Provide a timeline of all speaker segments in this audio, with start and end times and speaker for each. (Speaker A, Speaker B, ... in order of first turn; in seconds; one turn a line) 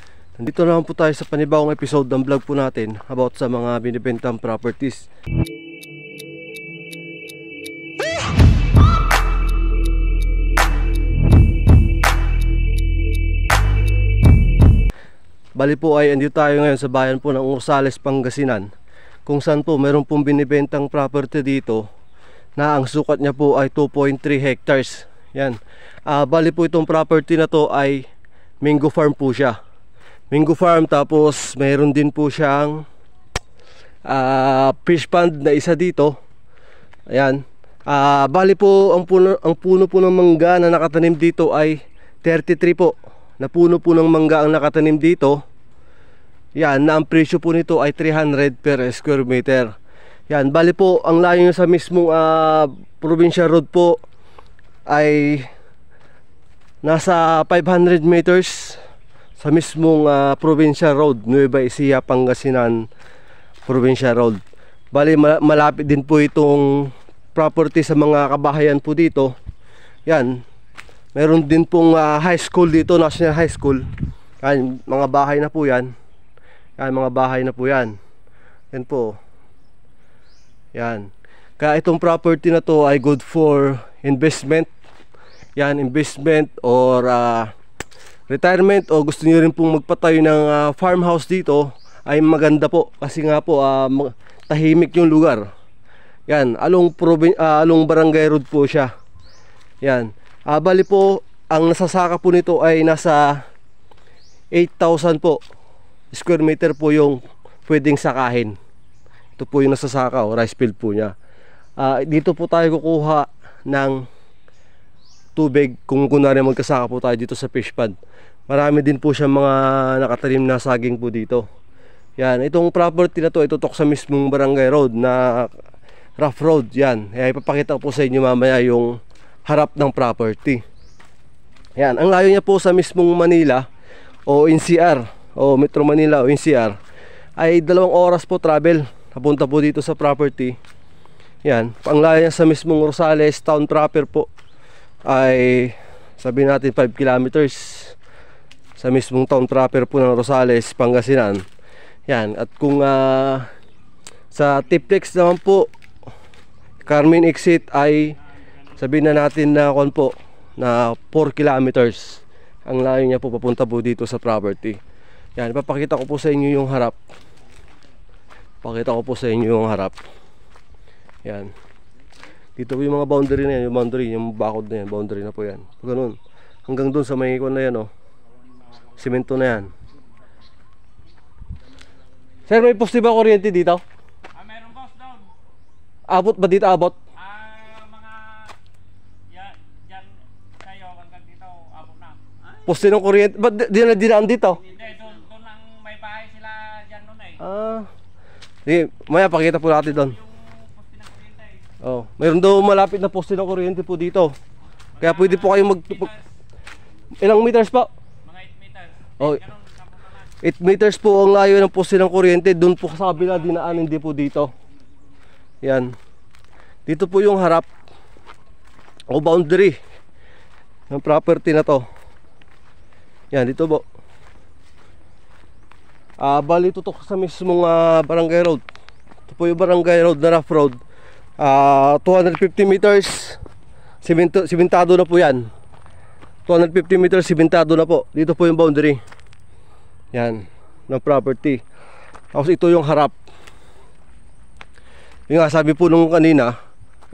Speaker A: 0.4-5.1
Speaker A: 15.6-18.7
Speaker A: 19.3-21.9
Speaker A: 22.6-28.1
Speaker A: 28.6-29.6
Speaker A: 30.3-32.9
Speaker A: 34.1-36.2
Speaker A: 37.1-45.4
Speaker A: 46.6-49.7
Speaker A: 50.3-54.0
Speaker A: 54.9-55.5
Speaker A: 56.8-58.8
Speaker A: 59.4-62.9
Speaker A: 63.7-64.4
Speaker A: 64.9-69.3
Speaker A: 70.1-70.4
Speaker A: 71.2-73.9
Speaker A: 74.4-75.9
Speaker A: 76.8-78.0
Speaker A: 78.7-79.2
Speaker A: 80.7-84.7
Speaker A: 85.6-87.5
Speaker A: 88.3-95.5
Speaker A: 96.3-98.9
Speaker A: 99.8-103.4
Speaker A: 104.5-105.4
Speaker A: 106.1-108.6
Speaker A: 109.4-111.2
Speaker A: 111.8-114.0
Speaker A: 115.4-118.0
Speaker A: 118.5-121.5
Speaker A: 122.2-125.5
Speaker A: 126.2-130.6
Speaker A: 131.8-133.7
Speaker A: 134.3-136.8
Speaker A: 137.4-140.6
Speaker A: 141.4-144.3
Speaker A: 145.1-148.0
Speaker A: 148.8-151.4
Speaker A: 152.1-153.5
Speaker A: 154.3-155.7
Speaker A: 156.8-158.2
Speaker A: 158.8-164.8
Speaker A: 165.4-167.0
Speaker A: 168.6-170.0
Speaker A: 171.2-171.5
Speaker A: 172.6-177.9
Speaker A: 179.0-179.7
Speaker A: 182.5-183.8
Speaker B: 184.3-185.3
Speaker A: 186.1-187.0
Speaker B: 187.2-188.6
Speaker B: 189.3-192.4
Speaker A: 192.7-194.6
Speaker B: 194.6-197.4
Speaker A: 197.4-197.9
Speaker A: 198.7-200.2
Speaker B: 200.0-201.6
Speaker A: 201.8-204.3
Speaker B: 205.0-206.2
Speaker A: 205.0-206.1
Speaker A: 207.2-207.9
Speaker B: 208.2-210.3
Speaker A: 210.4-214.5
Speaker A: 215.6-215.9
Speaker A: 216.9-217.7
Speaker A: 219.1-219.8
Speaker A: 220.9-221.9
Speaker A: 223.3-223.8
Speaker A: 226.2-228.6
Speaker A: 229.3-230.8
Speaker A: 231.4-233.4
Speaker A: 234.0-235.5
Speaker A: 236.5-239.0
Speaker A: 240.1-241.6
Speaker A: 242.3-243.2
Speaker A: 245.3-246.5